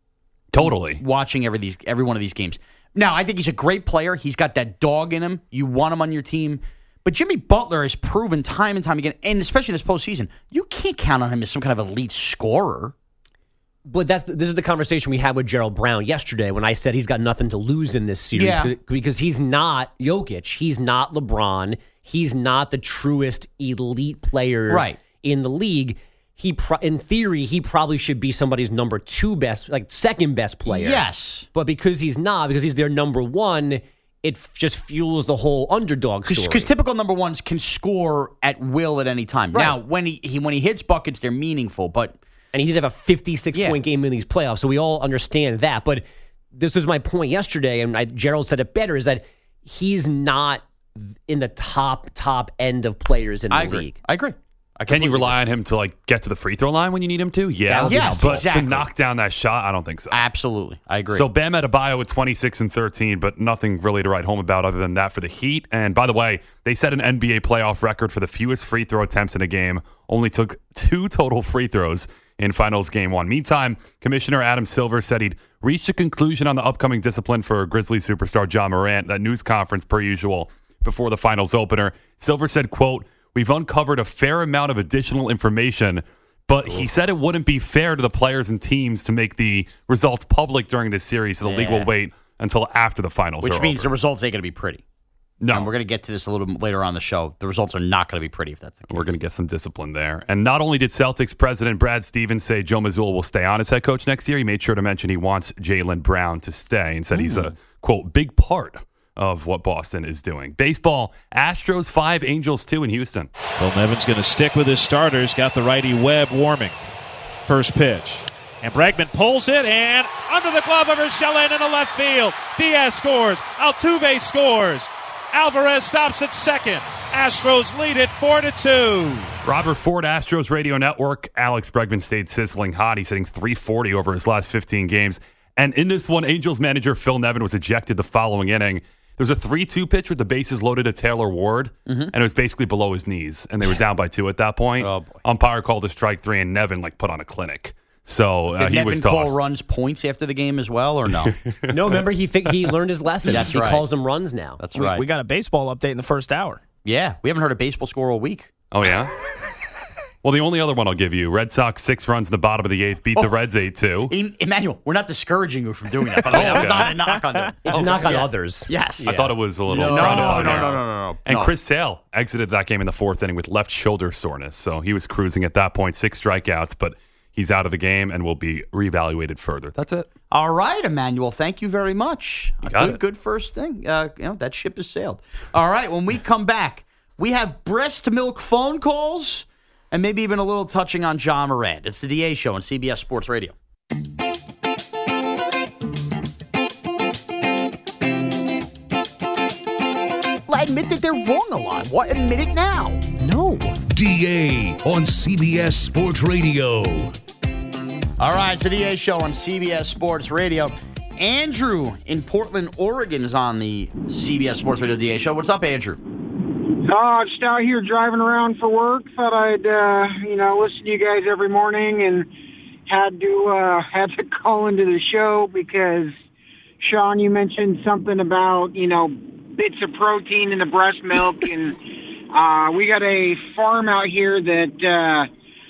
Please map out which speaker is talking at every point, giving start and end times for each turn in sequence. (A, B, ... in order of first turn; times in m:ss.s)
0:00.5-0:01.0 A
0:00.6-0:12.9 B
0:13.8-0:36.7 C
0:18.3-0:18.7 B
0:24.7-0:25.0 B
0:30.6-0:31.5 B
0:36.3-0:42.2 B
0:42.5-0:54.0 C
0:43.5-0:43.8 B
0:53.5-0:55.4 B
0:54.9-1:00.2 A
0:57.7-0:58.5 C
0:57.8-0:58.9 B
1:00.1-1:01.3 B
1:01.1-1:33.9 A
1:26.6-1:26.9 B
1:31.4-1:31.9 B
1:33.4-1:34.8 B
1:35.4-1:35.7 A
1:35.5-1:39.1 B
1:38.9-1:53.3 A
1:47.1-1:47.5 B
1:53.6-1:56.7 D
1:57.6-2:04.8 D
2:05.4-2:06.6 D
2:07.3-2:09.0 D
2:09.4-2:29.4 A
2:21.9-2:22.1 B
2:24.8-2:25.2 B
2:28.6-2:31.4 B
2:31.4-2:32.0 A
2:31.7-2:34.6 C
2:33.3-2:33.8 B
2:34.6-2:35.0 B
2:34.7-2:36.6 E
2:36.8-2:38.5 B
2:38.7-2:39.1 A
2:40.2-2:44.1 A
2:44.1-2:51.5 B
2:46.3-2:46.9 A
2:46.3-2:47.5 E
2:47.6-2:50.8 C
2:49.1-3:00.1 A
3:00.3-3:13.5 B
3:02.6-3:03.0 A
3:20.5-3:23.0 B
3:23.2-3:23.8 C
3:23.8-3:27.1 F
3:28.2-3:36.0 B
3:36.8-3:42.3 G
3:42.9-3:46.1 G
3:46.8-3:51.8 G
3:52.3-3:55.3 G